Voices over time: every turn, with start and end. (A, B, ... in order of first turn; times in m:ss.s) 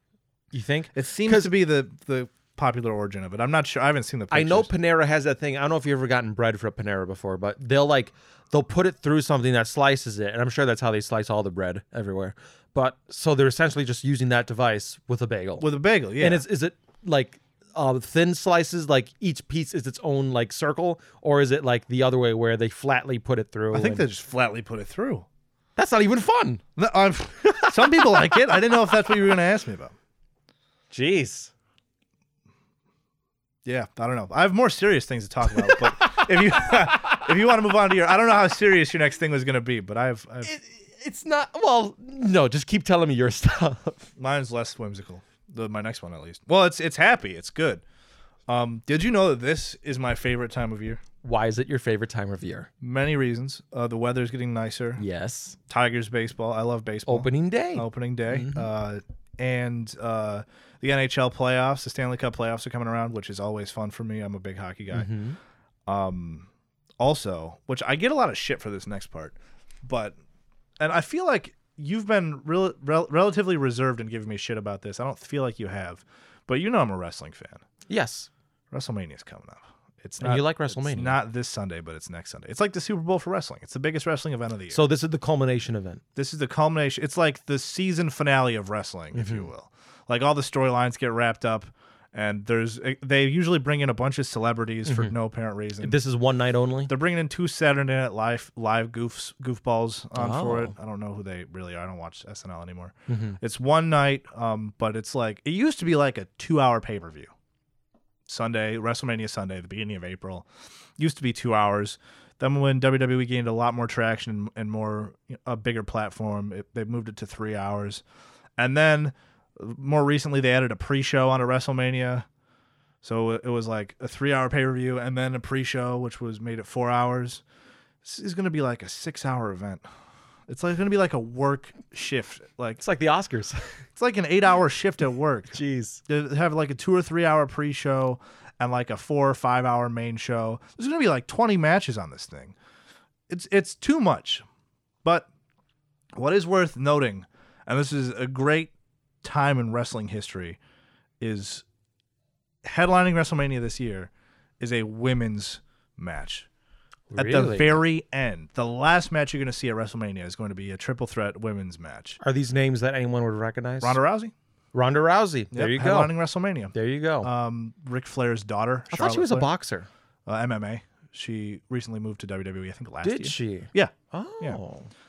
0:00.5-0:01.5 A
0:00.9-0:04.7 B
0:04.3-0:15.7 A
0:15.6-0:16.4 B
0:16.2-0:24.0 A
0:23.7-0:25.3 B
0:25.8-0:26.6 A
0:26.8-0:29.9 B
0:27.4-0:28.6 A
0:30.9-0:31.5 A
0:33.6-0:40.5 B
0:35.5-0:37.3 A
0:40.4-0:44.1 A
0:44.2-0:47.8 B
0:48.5-0:51.0 B
0:51.2-0:52.7 A
0:52.8-0:55.0 B
0:55.0-0:55.6 A
0:55.7-1:05.1 B
0:57.1-0:58.7 A
1:04.9-1:05.4 A
1:05.9-1:10.2 B
1:10.8-1:17.6 B
1:17.9-1:18.3 A
1:18.7-1:24.8 B
1:20.2-1:21.2 A
1:24.7-1:26.0 A
1:26.2-1:36.0 B
1:29.1-1:29.5 A
1:34.8-1:35.1 A
1:35.8-1:36.9 A
1:36.9-1:47.3 B
1:40.2-1:40.8 A
1:43.1-1:43.4 A
1:48.2-1:58.0 B
1:58.6-2:02.3 B
2:03.0-2:07.4 B
2:08.0-2:09.8 B
2:10.5-2:12.8 B
2:12.8-2:13.7 A
2:14.0-2:22.5 B
2:15.5-2:16.0 A
2:23.3-2:24.4 B
2:25.0-2:25.3 B
2:26.2-2:28.7 B
2:29.2-2:30.6 B
2:31.2-2:31.6 B
2:32.6-2:36.5 B
2:37.1-2:37.8 A
2:37.2-2:42.2 B
2:42.2-2:44.0 A
2:43.8-2:44.3 B
2:44.7-2:46.1 A
2:45.5-2:49.5 B
2:46.7-2:47.3 A
2:48.9-2:49.9 A
2:50.2-2:54.6 B
2:53.0-2:54.9 A